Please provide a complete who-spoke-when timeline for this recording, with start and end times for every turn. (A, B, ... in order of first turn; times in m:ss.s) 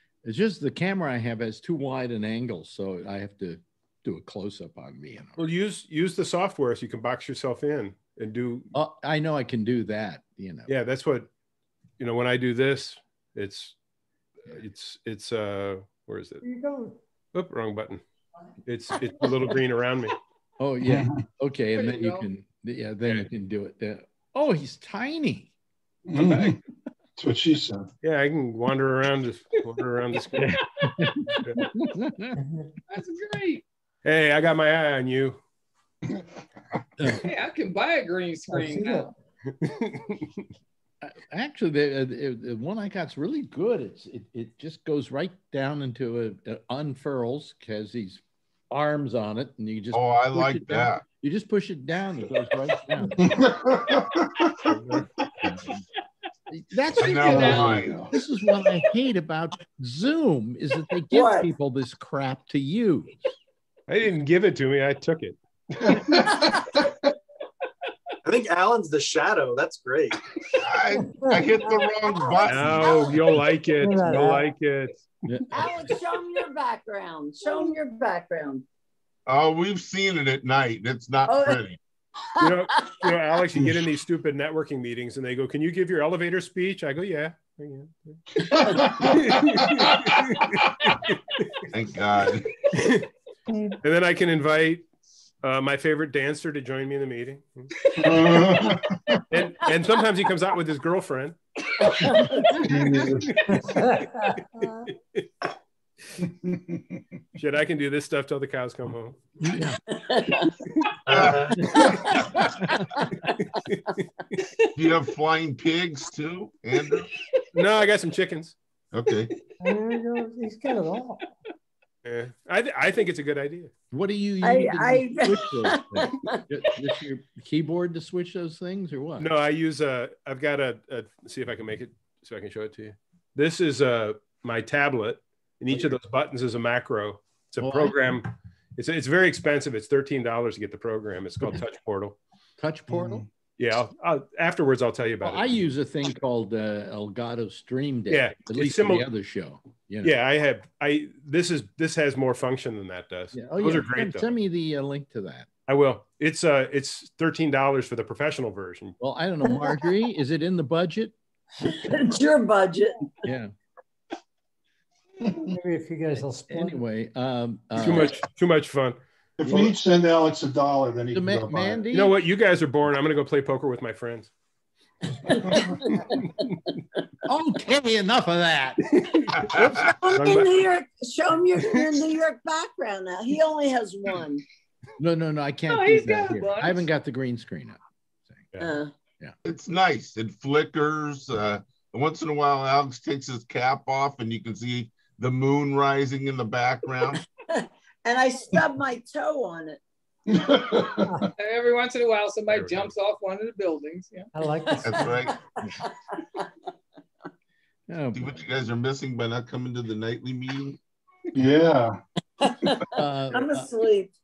0:00.2-0:05.4 A
0:05.4-0:08.7 B
0:08.7-0:10.7 A
0:10.7-0:11.3 B
0:12.0-0:13.7 B
0:14.4-0:16.4 B
0:16.4-0:17.0 C
0:17.3-0:18.0 B
0:18.6-0:20.2 B
0:20.6-0:25.5 A
0:20.8-0:21.2 D
0:21.7-0:22.2 E
0:26.1-0:26.6 D
0:26.1-0:26.5 E
0:27.2-0:27.9 D
0:28.0-0:30.6 B
0:30.4-0:32.4 A
0:32.4-0:32.7 C
0:32.9-0:33.6 E
0:34.0-0:35.4 B
0:37.0-0:37.3 A
0:37.2-0:39.1 E
0:38.5-0:39.1 C
0:39.6-0:40.3 B
0:41.0-0:53.4 A
0:49.9-0:51.0 F
0:53.2-0:54.7 D
0:54.6-0:55.8 A
0:56.5-1:03.2 A
0:57.0-0:58.0 F
0:57.1-0:57.8 E
0:57.3-0:58.1 D
1:01.1-1:01.5 G
1:03.9-1:05.4 B
1:05.8-1:06.6 D
1:08.2-1:10.2 H
1:10.6-1:13.1 F
1:10.9-1:11.9 C
1:12.0-1:13.2 G
1:12.5-1:15.0 B
1:13.8-1:14.5 C
1:15.3-1:15.7 A
1:15.5-1:18.6 G
1:19.3-1:21.8 F
1:21.2-1:21.7 G
1:22.4-1:23.2 G
1:22.4-1:31.5 B
1:28.4-1:29.9 D
1:31.7-1:32.5 F
1:33.5-1:33.7 C
1:33.8-1:34.9 B
1:35.4-1:37.9 B
1:38.0-1:39.2 D
1:39.3-1:41.4 B
1:41.8-1:42.7 G
1:42.6-1:43.3 D
1:43.5-1:44.7 C
1:46.2-1:47.0 D
1:47.4-1:49.2 B
1:49.4-1:49.8 A
1:49.9-1:50.5 G
1:51.0-1:51.6 F
1:51.1-1:51.4 B
1:51.1-1:52.3 G
1:51.5-1:52.9 A
1:54.8-1:57.1 F
1:57.5-1:58.6 B
1:58.9-1:59.3 F
1:59.6-2:01.2 C
2:02.0-2:03.7 B
2:03.9-2:09.4 A
2:04.4-2:06.4 G
2:09.2-2:22.2 B
2:17.6-2:18.2 A
2:22.6-2:23.2 A
2:22.9-2:23.2 D
2:23.6-2:25.6 B
2:25.2-2:30.1 A
2:28.1-2:29.1 B
2:30.0-2:34.3 B
2:33.3-2:35.5 A
2:35.7-2:39.0 B
2:39.0-2:41.2 A
2:39.4-2:39.9 G
2:41.6-2:43.0 G
2:43.2-2:43.5 A
2:45.3-2:45.5 D
2:45.5-2:46.8 C
2:46.5-2:48.2 A
2:47.8-2:49.0 B
2:49.4-2:51.8 D
2:49.4-2:49.7 A
2:51.1-2:52.1 A
2:51.9-2:54.3 B
2:55.8-2:56.2 G
2:57.2-2:58.9 A
2:58.9-2:59.5 B
2:59.4-2:59.8 F
2:59.6-3:04.4 G
3:00.1-3:00.7 B
3:01.6-3:02.0 B
3:05.0-3:07.8 A
3:05.7-3:06.9 E
3:08.6-3:08.9 G
3:09.4-3:17.2 F
3:17.5-3:19.8 G
3:20.3-3:21.3 D
3:21.4-3:24.3 E
3:22.5-3:22.9 B
3:24.3-3:25.3 C
3:24.8-3:25.3 F
3:25.8-3:26.4 G
3:27.9-3:28.4 A
3:28.1-3:30.8 F
3:31.3-3:32.0 D
3:32.4-3:34.1 G
3:32.9-3:33.7 A